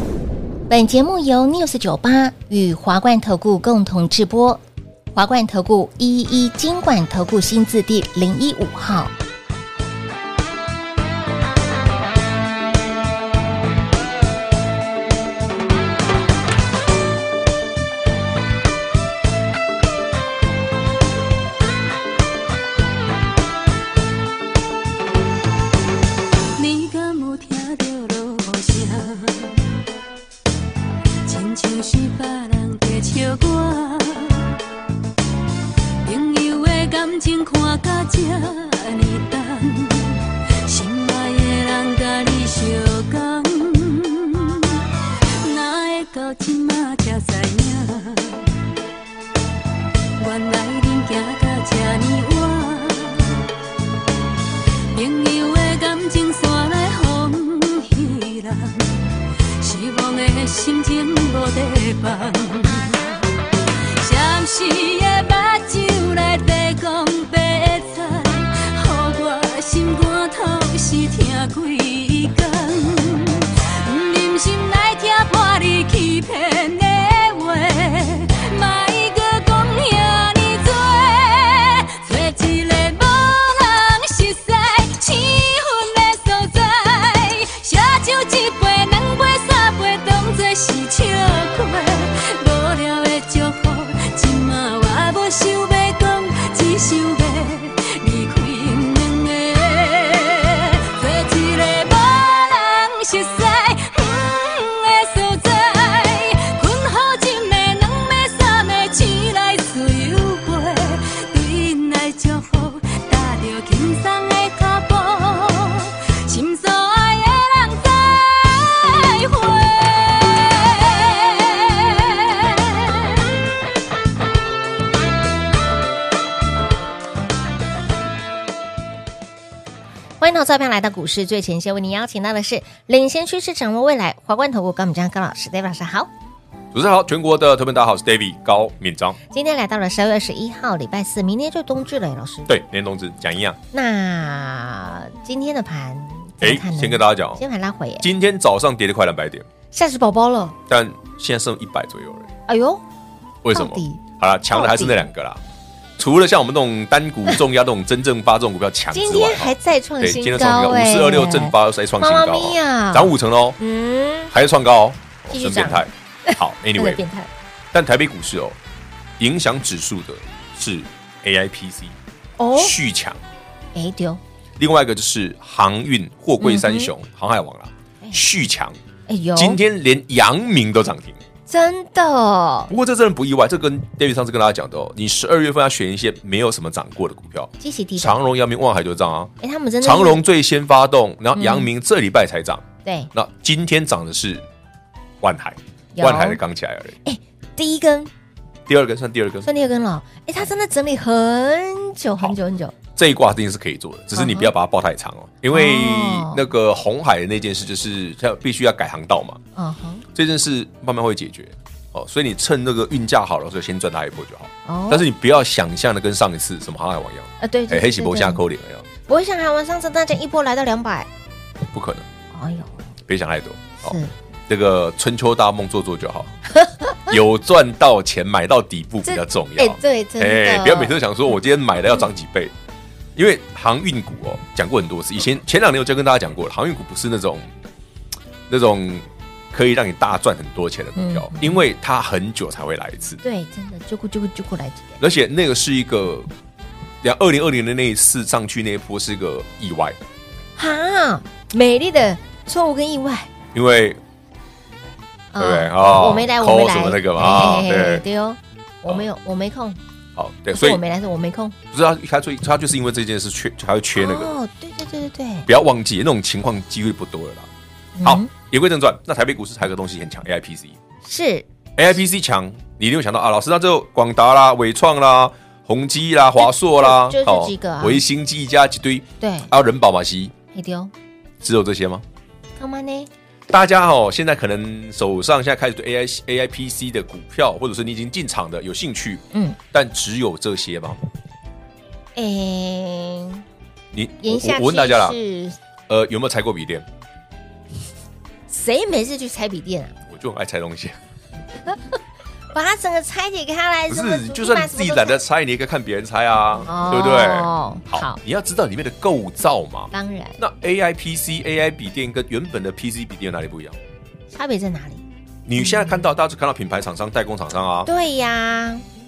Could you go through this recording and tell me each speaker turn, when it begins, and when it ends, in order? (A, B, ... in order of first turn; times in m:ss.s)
0:00.7-0:04.6 A
0:05.2-0:09.1 A
0:26.6-0:29.6 B
0:31.2-0:34.5 B
0:36.0-0:44.8 B
0:45.4-0:48.5 B
0:50.2-0:53.4 B
0:54.9-1:03.1 B
1:04.0-2:03.2 B
2:10.2-2:16.1 A
2:16.7-2:19.2 C
2:19.3-2:22.5 A
2:22.5-2:23.6 C
2:23.7-2:28.1 A
2:26.4-2:27.4 C
2:28.0-2:29.4 C
2:29.7-2:30.6 A
2:30.7-2:32.3 C
2:32.5-2:32.8 A
2:33.4-2:35.4 C
2:33.5-2:35.1 A
2:36.0-2:43.6 C
2:38.9-2:44.3 A
2:44.3-2:47.0 C
2:45.3-2:47.3 A
2:47.7-2:48.6 C
2:49.2-2:52.0 C
2:52.4-2:52.8 A
2:52.6-2:53.2 C
2:53.8-2:54.2 A
2:54.6-2:58.8 C
2:56.4-2:56.9 A
2:59.1-2:59.6 A
2:59.4-3:01.2 C
3:01.5-3:02.7 A
3:02.7-3:14.4 C
3:07.6-3:08.2 A
3:09.4-3:10.2 A
3:11.3-3:11.7 A
3:12.8-3:13.1 A
3:15.2-3:17.0 C
3:16.0-3:16.4 A
3:17.0-3:18.1 A
3:18.7-3:19.5 C
3:19.4-3:22.8 A
3:23.0-3:29.4 C
3:24.1-3:24.5 A
3:25.5-3:26.4 A
3:29.6-3:30.0 A
3:30.1-3:38.9 C
3:34.7-3:35.1 A
3:37.4-3:38.4 A
3:39.1-3:41.1 A
3:41.7-3:42.1 C
3:42.3-3:42.9 A
3:43.1-3:44.0 C
3:43.8-3:44.1 A
3:44.5-3:46.3 C
3:46.5-3:47.1 A
3:47.1-3:52.5 C
3:49.0-3:51.0 A
3:53.2-3:57.5 C
3:58.5-4:03.2 C
4:01.0-4:01.6 A
4:03.2-4:05.0 A
4:05.0-4:06.3 C
4:07.0-4:10.0 C
4:10.6-4:13.3 A
4:13.5-4:14.0 C
4:15.3-4:19.8 A
4:15.4-4:18.0 C
4:20.2-4:20.8 C
4:20.5-4:21.6 A
4:21.7-4:24.3 C
4:24.0-4:25.5 A
4:25.5-4:27.5 C
4:28.0-4:28.3 A
4:28.0-4:30.8 C
4:31.0-4:31.5 A
4:31.8-4:40.3 C
4:36.4-4:38.0 A
4:39.2-4:39.5 A
4:40.5-4:40.9 A
4:41.4-4:42.0 C
4:42.6-4:43.1 A
4:43.5-4:51.0 C
4:49.3-4:49.6 A
4:52.2-4:53.4 A
4:53.9-4:55.2 C
4:54.2-4:55.6 A
4:55.9-4:56.9 C
4:58.5-5:00.0 A
5:00.1-5:01.0 C
5:01.7-5:02.0 A
5:02.5-5:05.2 A
5:03.9-5:13.8 C
5:06.6-5:08.2 A
5:09.9-5:10.4 A
5:14.3-5:15.0 A
5:15.5-5:17.9 C
5:15.6-5:16.0 A
5:17.9-5:18.8 A